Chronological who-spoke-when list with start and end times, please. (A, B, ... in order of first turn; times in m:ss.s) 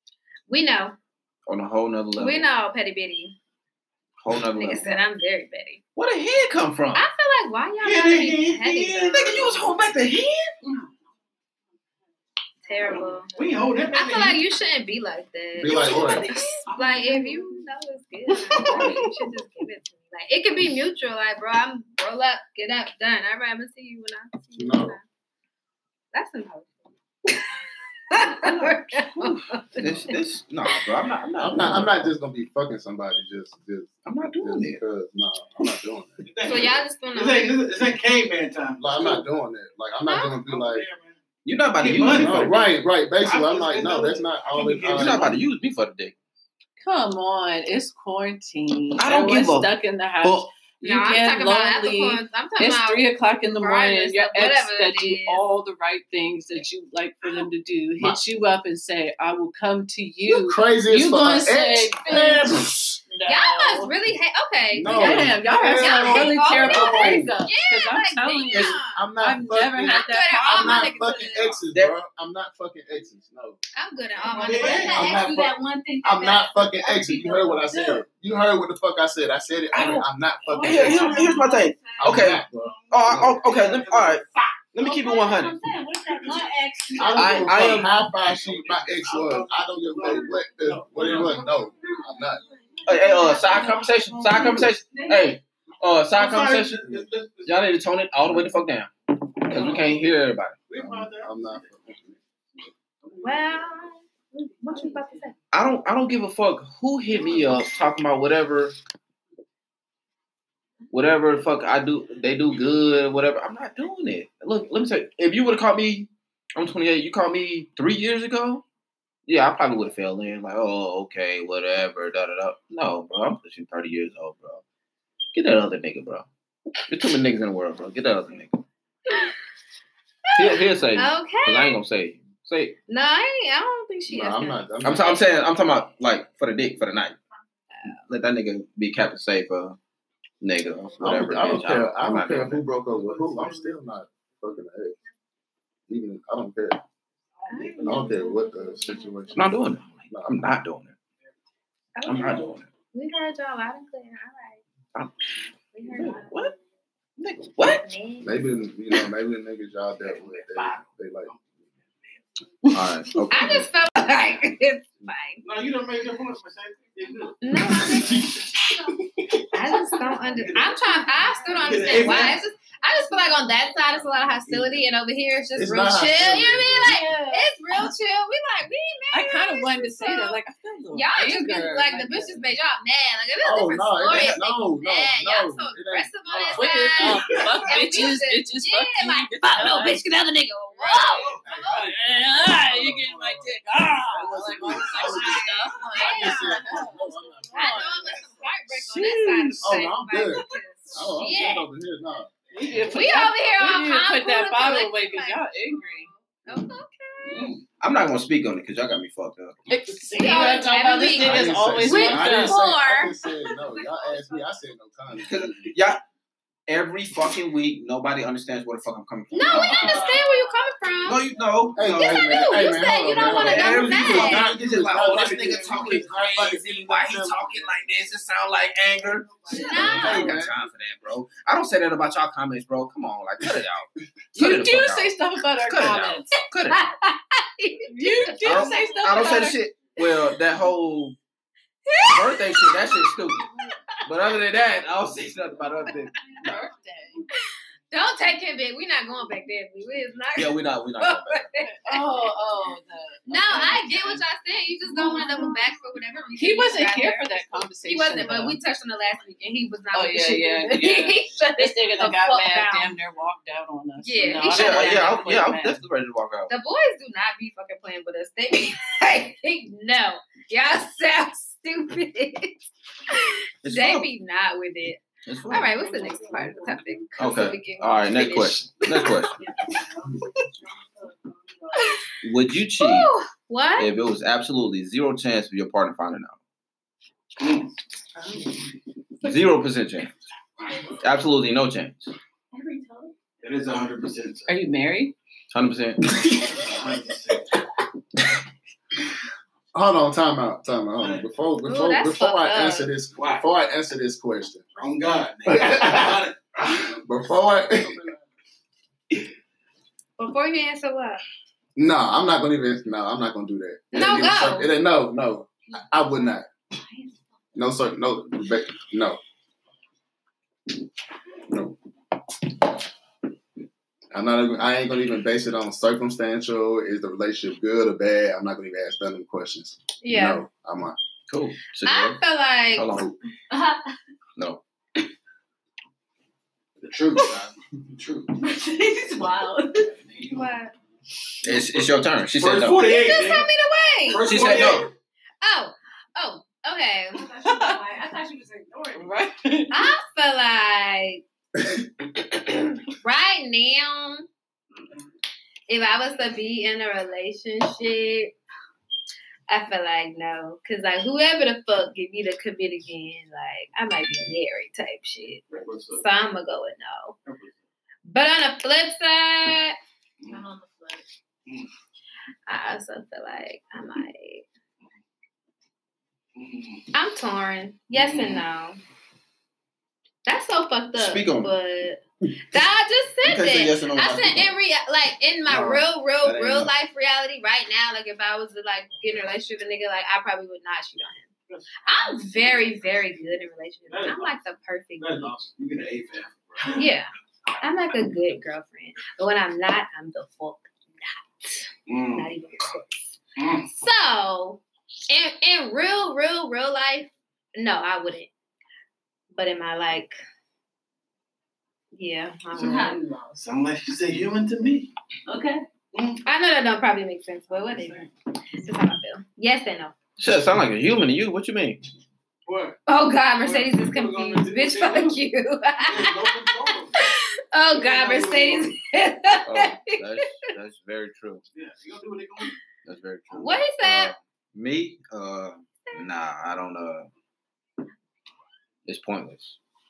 0:00.5-0:01.0 A
0:01.5-0:02.5 B
0:02.2-0:03.4 A
0:04.2-0:04.8 B
0:04.5-0:05.8 A
0:06.0-0:07.0 B
0:06.9-0:09.5 A
0:07.8-0:09.6 C
0:09.1-0:10.5 B
0:12.6-0:13.3 A
0:12.9-0:14.4 C
0:13.9-0:25.0 A
0:15.6-0:16.3 D
0:15.7-0:17.4 C
0:16.0-0:16.6 E
0:24.6-0:25.0 D
0:26.1-0:27.6 A
0:28.1-0:30.8 A
0:28.4-0:32.1 B
0:31.4-0:36.2 D
0:34.0-0:34.8 B
0:36.2-0:39.2 C
0:36.4-0:37.6 A
0:38.8-0:40.8 D
0:40.1-0:40.4 A
0:40.4-0:41.2 C
0:41.4-0:42.7 B
0:41.8-0:42.6 C
0:41.9-0:45.3 D
0:43.2-0:45.4 C
0:44.9-0:46.1 B
0:46.8-1:02.6 F
0:49.0-0:49.7 B
0:50.2-0:50.5 B
0:50.8-0:55.4 A
1:00.2-1:03.0 D
1:03.1-1:03.9 F
1:03.2-1:09.1 A
1:04.7-1:07.3 D
1:04.8-1:11.2 F
1:08.5-1:13.6 D
1:09.8-1:11.6 A
1:13.7-1:15.3 A
1:14.3-1:15.2 C
1:14.3-1:18.0 E
1:14.7-1:21.3 D
1:19.7-1:20.0 B
1:20.5-1:22.2 E
1:20.6-1:25.6 B
1:20.6-1:21.1 C
1:22.0-1:23.5 D
1:22.5-1:24.4 C
1:24.8-1:27.5 E
1:26.1-1:26.4 C
1:27.0-1:32.4 D
1:27.2-1:27.9 B
1:27.7-1:31.4 C
1:31.1-1:31.6 E
1:32.8-1:35.3 E
1:32.8-1:36.9 B
1:36.1-1:37.6 C
1:37.4-1:40.6 B
1:39.5-1:40.1 C
1:40.7-1:41.7 C
1:40.8-1:42.1 D
1:43.2-1:45.3 A
1:44.4-1:45.3 E
1:45.5-1:48.8 B
1:50.9-1:58.6 B
1:59.3-2:04.6 B
2:05.3-2:06.3 B
2:06.9-2:08.6 B
2:09.1-2:09.3 A
2:10.2-2:11.8 A
2:10.3-2:12.8 B
2:12.9-2:14.6 A
2:14.1-2:15.2 D
2:14.8-2:17.2 B
2:18.0-2:19.8 B
2:20.4-2:22.6 B
2:21.0-2:25.0 D
2:22.9-2:23.7 C
2:25.9-2:26.8 D
2:27.5-2:29.0 A
2:27.5-2:28.4 E
2:27.8-2:29.5 D
2:29.3-2:30.9 B
2:30.1-2:30.5 D
2:32.0-2:34.6 A
2:32.0-2:32.6 B
2:35.7-2:36.5 A
2:36.0-2:36.5 B
2:37.2-2:37.8 B
2:37.6-2:38.4 A
2:38.2-2:41.3 D
2:40.1-2:41.4 C
2:42.7-2:43.6 B
2:43.3-2:45.4 A
2:45.4-2:48.5 C
2:47.4-2:48.4 A
2:49.5-3:00.4 A
2:50.2-2:50.8 C
2:51.4-2:52.2 E
2:51.6-2:52.4 C
2:54.5-2:54.8 C
2:55.5-2:57.0 D
2:56.6-2:57.5 F
2:59.1-3:02.4 F
3:00.9-3:11.9 A
3:03.4-3:06.6 D
3:06.3-3:07.6 C
3:06.5-3:10.0 F
3:11.0-3:11.5 C
3:11.4-3:13.4 D
3:11.6-3:18.0 F
3:14.1-3:17.1 D
3:14.8-3:15.1 C
3:15.0-3:16.8 A
3:17.5-3:21.6 A
3:18.7-3:19.7 B
3:19.6-3:22.3 D
3:22.5-3:23.0 C
3:22.5-3:26.0 F
3:22.9-3:27.5 A
3:27.2-3:27.6 C
3:27.8-3:29.6 B
3:29.7-3:32.6 F
3:30.2-3:33.2 A
3:31.0-3:35.7 D
3:35.2-3:36.0 B
3:36.7-3:40.2 B
3:39.3-3:41.2 A
3:39.8-3:40.2 E
3:41.0-3:56.8 B
3:41.7-3:47.4 D
3:41.9-3:44.5 A
3:44.7-3:45.9 C
3:49.5-3:50.4 A
3:49.7-3:50.6 D
3:54.3-3:56.3 F
3:56.7-3:59.4 A
3:58.0-3:59.6 F
3:58.4-4:01.2 B
4:01.8-4:03.8 A
4:02.1-4:03.4 B
4:04.0-4:06.1 B
4:06.4-4:07.2 F
4:07.9-4:12.1 A
4:10.3-4:11.5 B
4:11.6-4:14.2 F
4:13.3-4:22.9 A
4:15.0-4:15.6 E
4:16.4-4:18.6 F
4:19.9-4:25.8 F
4:24.0-4:25.1 A
4:24.5-4:26.5 B
4:26.5-4:39.2 A
4:33.6-4:34.1 B
4:35.2-4:35.8 B
4:35.8-4:36.8 E
4:37.2-4:39.4 B
4:39.4-4:42.0 E
4:41.7-4:42.0 A
4:42.2-4:43.1 B
4:42.8-4:43.9 A
4:43.8-4:46.4 B
4:47.4-4:47.7 C
4:48.2-4:48.6 F
4:49.2-4:50.1 B
4:51.0-4:52.1 B
4:52.5-4:53.1 E
4:53.4-4:54.5 C
4:54.5-4:55.1 F
4:55.5-4:56.1 B
4:56.2-4:56.5 D
4:56.5-4:57.6 C
4:59.7-5:04.6 D
5:01.0-5:01.3 C
5:01.6-5:02.9 A
5:03.1-5:03.4 C
5:04.8-5:07.0 C
5:05.4-5:06.2 D
5:06.8-5:08.0 D
5:10.2-5:11.2 A
5:11.8-5:16.5 D
5:13.9-5:14.7 A
5:16.0-5:17.2 E
5:17.5-5:19.2 D
5:21.5-5:21.8 D
5:24.1-5:31.0 D
5:30.0-5:30.4 A
5:31.3-5:32.2 B
5:31.8-5:33.0 A
5:32.7-5:33.1 B
5:33.5-5:33.9 E
5:36.8-5:38.3 C
5:38.4-5:40.0 E
5:40.0-5:40.5 C
5:40.2-5:40.7 A
5:41.4-5:42.9 B
5:41.4-5:43.5 C
5:42.8-5:44.7 A
5:44.0-5:44.9 C
5:44.2-5:44.9 B
5:45.4-5:47.2 A
5:47.1-5:49.1 E
5:47.4-5:47.8 F
5:49.0-5:49.9 F
5:49.7-5:51.2 A
5:53.0-5:54.2 A
5:55.7-5:58.3 A
5:59.5-6:07.2 A
6:05.5-6:06.0 C
6:07.2-6:07.5 C
6:08.0-6:09.8 A
6:10.3-6:11.0 E
6:12.5-6:14.4 A
6:16.4-6:16.9 C
6:16.9-6:18.8 A
6:17.9-6:18.4 C
6:20.2-6:31.3 A
6:21.0-6:21.5 B
6:23.2-6:24.5 B
6:25.5-6:26.7 B
6:31.5-6:31.8 C
6:31.8-6:35.4 A
6:33.9-6:34.4 C
6:35.0-6:36.9 C
6:36.7-6:37.1 A
6:37.6-6:43.1 A
6:41.9-6:42.3 C
6:43.4-6:43.7 C
6:43.7-6:48.3 A
6:49.3-6:50.1 A
6:51.9-6:53.0 A
6:52.5-6:53.3 E
6:53.3-6:54.9 C
6:55.3-6:55.6 E
6:55.9-6:56.2 C
6:56.2-6:59.9 A
7:00.2-7:01.8 B
7:02.4-7:02.8 C
7:02.9-7:06.4 A
7:03.4-7:05.2 C
7:05.8-7:07.1 C
7:06.9-7:10.3 A
7:07.7-7:08.8 C
7:09.4-7:11.4 B
7:11.5-7:12.6 C
7:12.8-7:17.1 B
7:13.3-7:14.1 A
7:18.8-7:19.6 B